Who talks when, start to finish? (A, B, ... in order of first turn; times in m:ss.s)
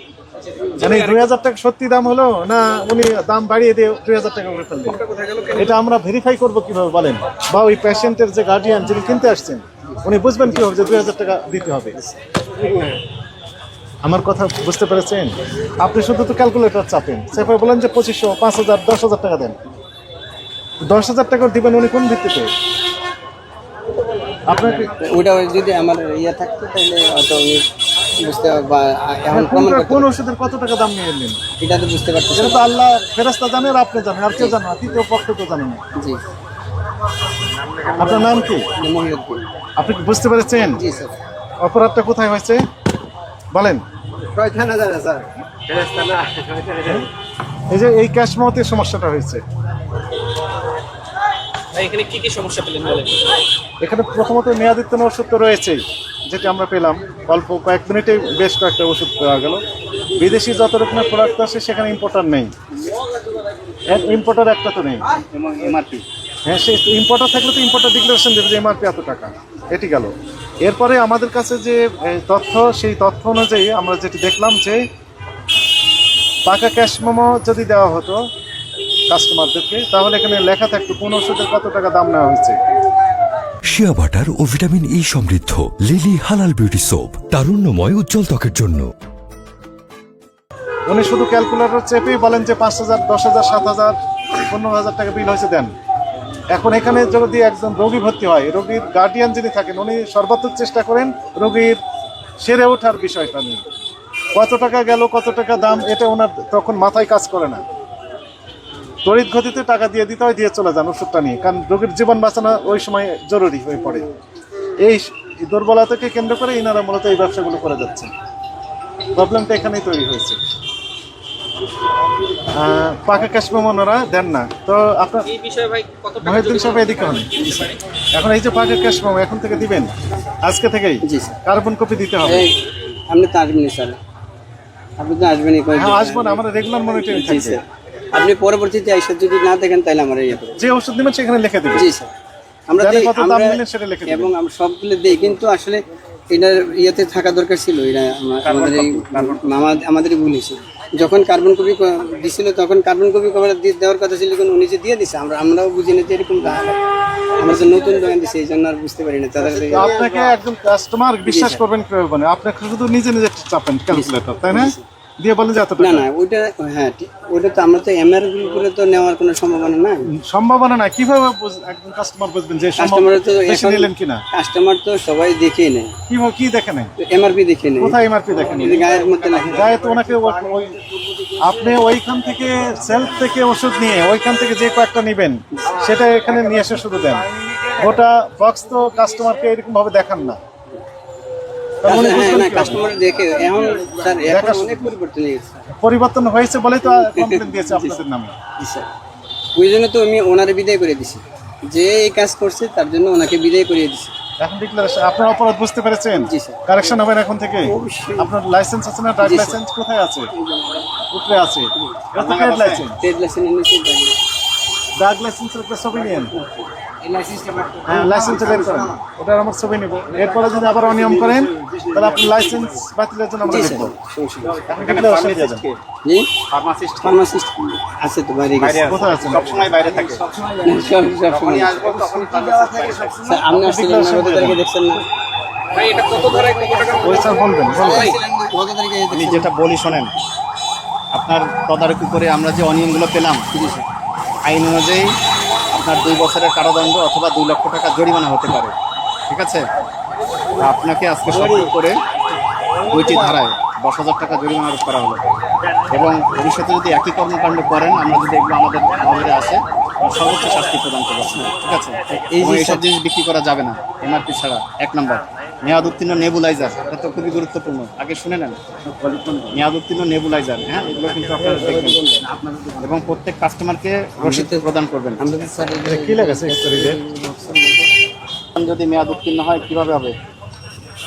0:00.6-0:01.2 A
0:00.8-0:05.0 B
0:05.0-0:05.7 A
0:05.5-0:12.0 B
0:14.0-0:19.6 B
0:20.9-0:22.5 B
0:24.5-0:24.9 B
0:24.6-0:27.6 C
0:28.2-0:30.1 C
0:29.3-0:31.4 B
0:31.6-0:32.6 C
0:32.3-0:35.8 B
0:36.0-0:36.2 C
0:37.9-0:38.7 B
0:38.0-0:39.5 C
0:39.8-0:40.8 B
0:40.8-0:41.2 C
0:41.6-0:42.6 B
0:43.5-0:43.8 B
0:44.3-0:46.9 C
0:47.7-0:49.4 B
0:51.7-0:53.3 A
0:53.8-0:59.6 B
1:00.2-1:02.5 B
1:03.9-1:05.0 B
1:05.3-1:06.0 D
1:06.4-1:14.8 B
1:16.4-1:18.2 B
1:19.1-1:22.6 B
1:23.7-1:28.9 E
1:30.9-1:34.0 B
1:34.5-1:35.7 B
1:36.5-1:41.8 B
1:42.4-1:43.6 B
1:44.3-1:47.6 B
1:49.0-1:54.1 B
1:54.8-1:58.1 B
1:59.1-2:00.4 B
2:02.5-2:05.3 B
2:05.3-2:07.7 A
2:06.2-2:07.4 B
2:08.1-2:12.5 B
2:11.0-2:11.4 C
2:12.2-2:12.6 C
2:13.1-2:14.0 C
2:15.0-2:16.4 C
2:15.8-2:17.6 B
2:17.0-2:20.6 C
2:20.6-2:21.9 B
2:21.8-2:22.1 C
2:22.7-2:36.8 C
2:22.8-2:24.4 B
2:28.4-2:29.6 D
2:37.4-2:40.3 C
2:39.7-2:46.1 B
2:41.2-2:41.6 C
2:43.9-2:44.8 C
2:45.8-2:50.1 C
2:50.1-2:54.2 B
2:52.8-2:55.9 C
2:56.1-2:56.9 B
2:57.0-2:59.8 C
2:57.8-2:58.9 B
2:59.5-3:00.8 B
3:01.4-3:10.4 B
3:11.8-3:12.9 B
3:11.9-3:15.6 C
3:14.3-3:14.9 B
3:15.8-3:18.3 B
3:17.1-3:18.0 C
3:18.6-3:18.9 C
3:19.6-3:24.1 C
3:24.4-3:30.3 B
3:26.2-3:26.6 C
3:27.6-3:28.3 C
3:29.2-3:29.6 C
3:30.4-3:30.9 C
3:31.1-3:33.0 B
3:31.8-3:32.0 C
3:32.2-3:32.9 D
3:33.0-3:34.2 C
3:35.0-3:36.4 B
3:36.3-3:38.9 C
3:37.8-3:44.0 B
3:43.4-3:44.6 C
3:44.5-3:45.8 D
3:44.7-3:45.6 B
3:46.0-3:46.4 C
3:46.5-3:47.2 D
3:47.0-3:49.0 C
3:48.6-3:50.2 D
3:48.9-3:49.6 B
3:50.3-3:52.2 C
3:51.3-3:53.4 D
3:53.1-3:55.0 C
3:53.5-3:54.6 B
3:55.7-3:58.2 A
3:57.0-3:58.1 B
3:57.7-3:59.5 C
3:59.1-4:00.2 D
4:01.1-4:03.5 D
4:03.5-4:03.9 C
4:04.4-4:05.1 D
4:05.7-4:08.8 D
4:09.3-4:09.7 D
4:10.6-4:12.0 D
4:11.3-4:11.7 C
4:12.9-4:15.3 D
4:15.9-4:32.0 D
4:22.1-4:22.8 C
4:31.4-4:32.2 C
4:32.8-4:35.2 D
4:34.2-4:34.7 C
4:35.2-4:37.9 C
4:35.8-4:37.0 B
4:38.6-4:40.2 D